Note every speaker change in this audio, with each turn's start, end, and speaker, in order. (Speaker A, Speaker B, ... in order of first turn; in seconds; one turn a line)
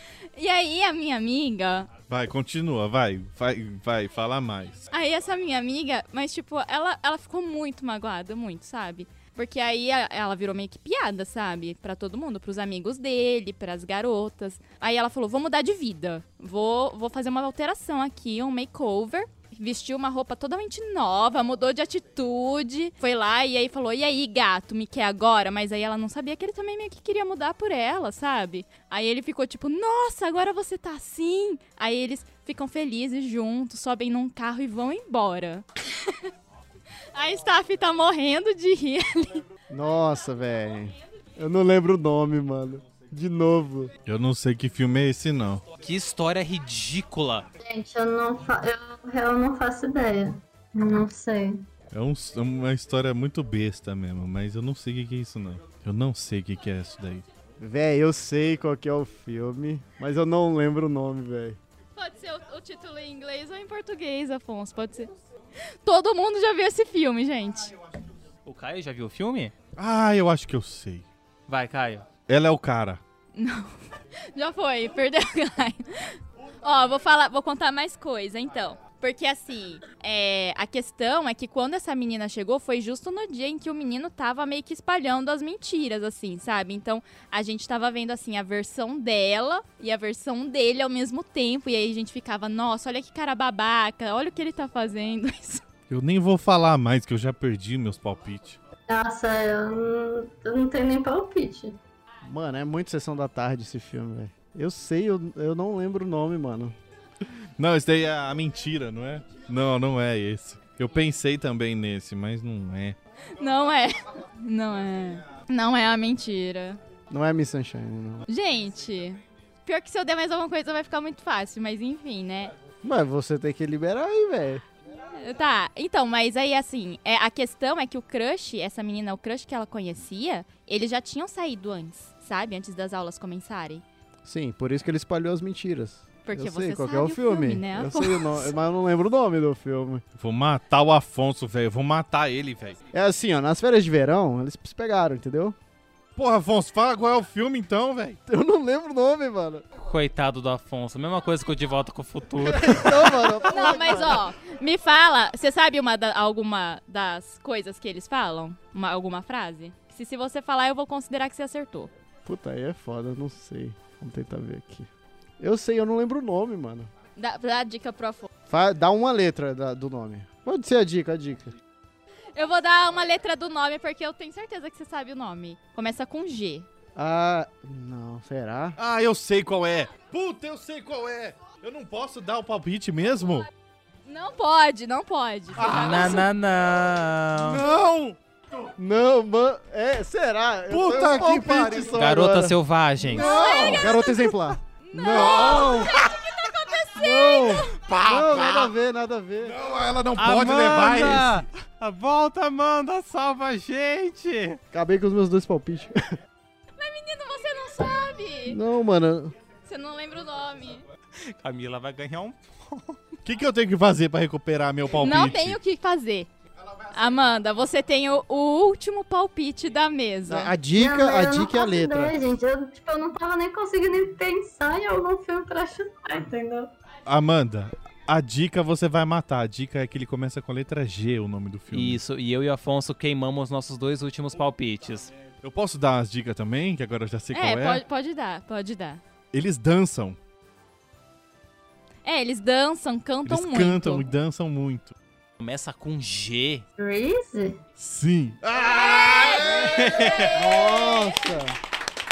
Speaker A: 0.3-1.9
Speaker B: 2.1-4.8
Speaker A: 4.9-36.2
Speaker A: 37.1-39.4
Speaker C: 39.7-43.9
Speaker B: 44.0-45.6
Speaker D: 45.8-47.5
Speaker E: 47.6-51.7
Speaker B: 51.9-57.2
Speaker C: 57.6-61.6
Speaker A: 62.0-67.8
Speaker D: 68.4-69.5
Speaker B: 69.8-71.0
Speaker D: 71.5-72.1
Speaker B: 72.2-73.0
Speaker A: 73.3-73.7
Speaker A: 74.3-95.6
Speaker B: 95.9-98.6
Speaker E: 98.9-101.8
Speaker C: 102.2-106.7
Speaker B: 107.6-113.0
Speaker A: 113.4-116.8
Speaker C: 117.1-118.3
Speaker A: 118.3-122.5
Speaker C: 122.8-124.6
Speaker A: 125.0-133.8
Speaker C: 134.2-140.0
Speaker A: 136.2-138.5
Speaker B: 140.2-142.8
Speaker C: 142.9-145.6
Speaker B: 146.2-148.2
Speaker C: 148.3-149.6
Speaker D: 149.8-153.4
Speaker C: 152.4-154.3
Speaker A: 153.5-161.9
Speaker C: 162.2-164.9
Speaker C: 165.4-166.9
Speaker A: 167.2-168.3
Speaker C: 168.5-171.5
Speaker A: 172.3-176.7
Speaker C: 176.9-178.8
Speaker B: 178.8-183.5
Speaker A: 184.1-186.2
Speaker D: 185.6-187.6
Speaker B: 187.4-188.2
Speaker C: 188.8-192.6
Speaker B: 190.7-192.0
Speaker D: 191.9-193.3
Speaker A: 193.1-197.8
Speaker B: 193.1-194.0
Speaker C: 193.7-195.9
Speaker B: 195.1-196.1
Speaker C: 197.0-199.6
Speaker B: 197.0-197.6
Speaker D: 197.8-198.7
Speaker B: 199.5-201.4
Speaker D: 200.2-204.6
Speaker C: 204.7-206.0
Speaker A: 206.8-208.6
Speaker C: 208.5-209.3
Speaker A: 209.7-210.8
Speaker D: 211.2-213.0
Speaker B: 213.2-215.6
Speaker A: 214.9-216.3
Speaker A: 216.9-220.5
Speaker C: 220.2-222.2
Speaker E: 220.7-226.7
Speaker B: 227.1-232.0
Speaker D: 231.7-235.1
Speaker B: 235.4-237.8
Speaker A: 237.3-239.0
Speaker B: 239.3-240.2
Speaker A: 242.0-244.1
Speaker B: 243.2-244.9
Speaker D: 245.4-246.6
Speaker E: 246.8-247.6
Speaker B: 247.8-250.0
Speaker A: 248.9-250.3
Speaker D: 249.6-250.3
Speaker C: 250.3-251.6
Speaker E: 250.4-251.0